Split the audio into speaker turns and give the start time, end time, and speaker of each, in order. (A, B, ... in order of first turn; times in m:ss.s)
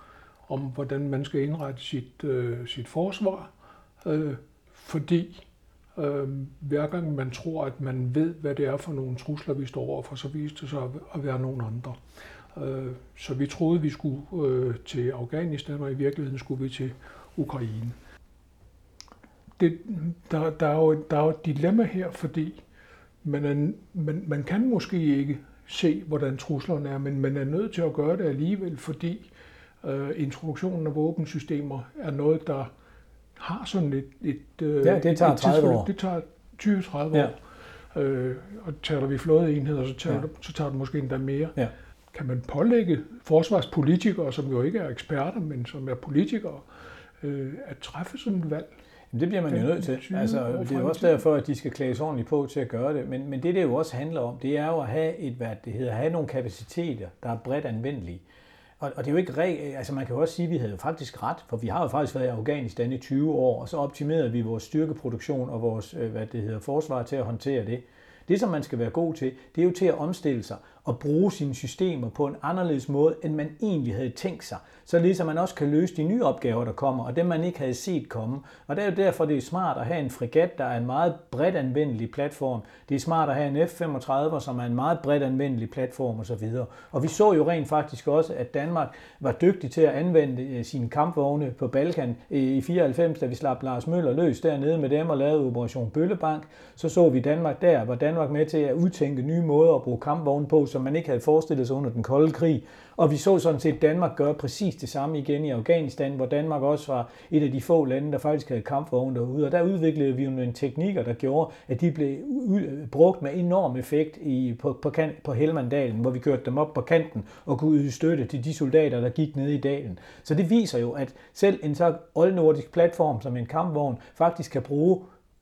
0:00.5-0:03.5 A
0:04.0-0:12.0 A
0:12.5-0:18.0 A
0:19.6-0:22.6 A
0:23.2-0:29.3 A
0:29.8-0:32.7 A
0:33.4-0:37.4 A
0:34.8-0:35.9 B
0:37.9-0:41.6 A
0:42.1-0:46.7 A
0:47.2-0:48.7 A
0:49.1-0:58.2 B
0:49.5-0:51.2 A
0:58.8-2:05.1 B